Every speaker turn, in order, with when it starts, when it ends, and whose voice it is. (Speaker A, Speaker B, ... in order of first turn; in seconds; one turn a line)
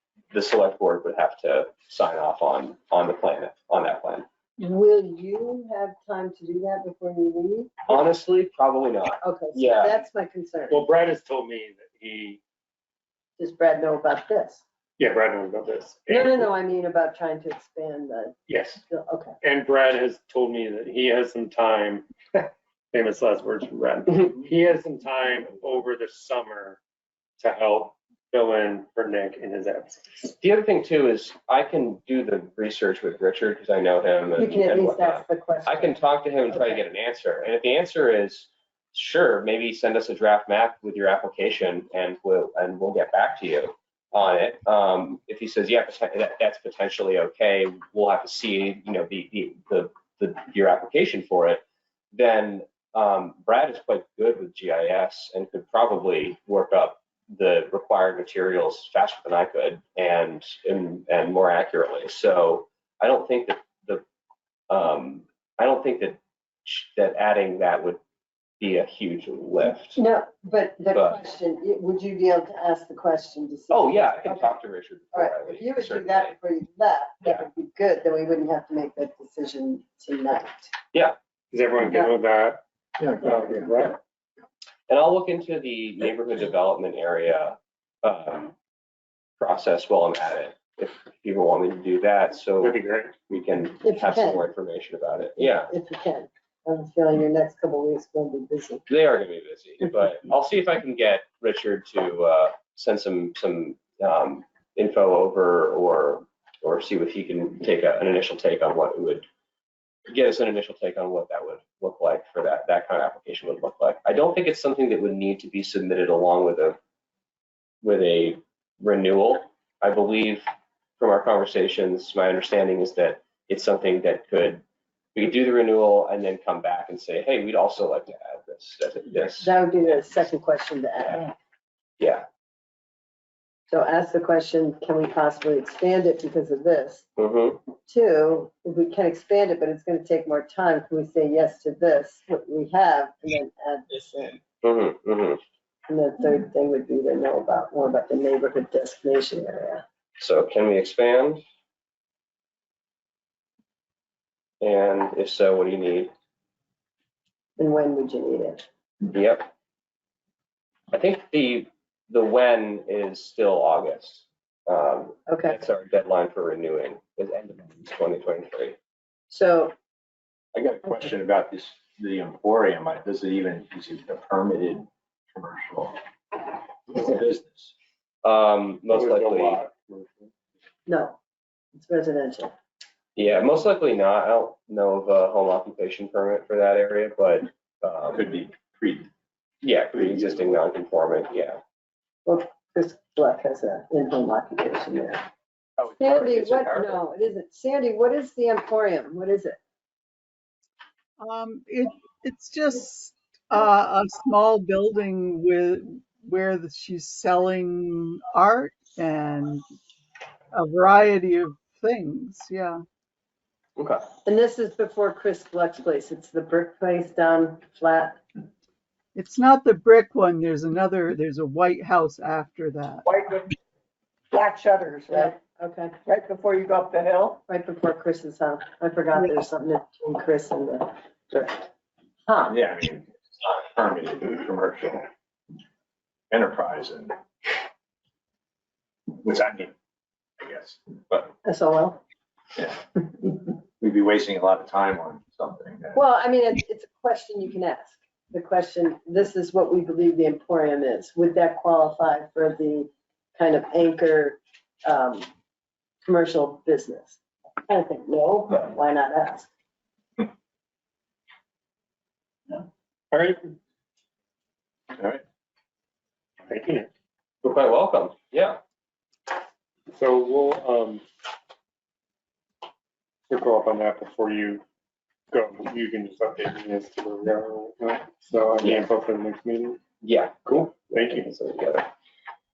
Speaker A: 0.3-4.3
Speaker B: 4.6-8.0
Speaker A: 7.9-10.0
Speaker B: 9.2-10.8
Speaker C: 10.7-12.4
Speaker B: 13.4-14.6
Speaker C: 15.0-16.5
Speaker B: 16.1-18.4
Speaker C: 18.5-18.8
Speaker B: 18.9-19.4
Speaker C: 19.4-26.8
Speaker C: 27.4-30.2
Speaker A: 30.4-64.0
Speaker B: 34.4-36.8
Speaker A: 64.7-68.0
Speaker A: 68.6-70.0
Speaker B: 70.0-74.6
Speaker A: 70.9-71.2
Speaker A: 73.7-76.3
Speaker B: 75.1-80.7
Speaker C: 81.5-82.6
Speaker D: 83.0-83.7
Speaker C: 83.2-84.0
Speaker A: 84.9-88.5
Speaker A: 89.4-92.8
Speaker C: 92.6-93.1
Speaker A: 93.3-95.7
Speaker B: 93.8-94.4
Speaker B: 95.7-98.8
Speaker A: 98.9-109.3
Speaker A: 110.1-116.8
Speaker A: 117.8-120.5
Speaker A: 121.0-124.6
Speaker A: 125.2-130.0
Speaker B: 129.4-131.3
Speaker A: 132.0-132.2
Speaker B: 133.7-137.1
Speaker A: 137.2-137.6
Speaker B: 137.9-144.4
Speaker A: 144.6-145.4
Speaker B: 145.9-149.8
Speaker A: 150.2-151.4
Speaker A: 154.6-156.1
Speaker B: 157.6-158.6
Speaker A: 159.1-159.5
Speaker A: 160.9-168.8
Speaker B: 165.3-165.6
Speaker B: 169.3-169.7
Speaker D: 170.5-177.7
Speaker A: 178.2-179.6
Speaker C: 178.9-180.3
Speaker B: 180.9-181.2
Speaker B: 181.8-182.5
Speaker A: 183.2-188.2
Speaker D: 188.1-189.1
Speaker A: 189.6-191.6
Speaker B: 192.3-195.2
Speaker D: 195.8-197.0
Speaker B: 196.0-199.6
Speaker E: 201.2-209.6
Speaker E: 210.5-212.8
Speaker A: 213.8-214.0
Speaker B: 214.2-218.2
Speaker E: 219.2-223.1
Speaker F: 223.1-223.5
Speaker F: 224.3-225.3
Speaker B: 225.1-226.0
Speaker F: 226.1-227.4
Speaker B: 227.5-231.7
Speaker B: 232.3-232.6
Speaker D: 232.5-235.1
Speaker D: 236.3-237.2
Speaker D: 239.1-239.7
Speaker D: 240.4-241.3
Speaker B: 241.4-242.0
Speaker D: 243.8-246.0
Speaker B: 245.9-255.3
Speaker B: 256.1-259.5
Speaker C: 263.1-263.5
Speaker D: 264.9-265.2
Speaker C: 266.5-266.9
Speaker A: 267.4-268.6
Speaker C: 269.9-271.0
Speaker C: 273.3-274.6
Speaker C: 275.3-279.8
Speaker A: 280.0-281.9
Speaker C: 280.5-281.3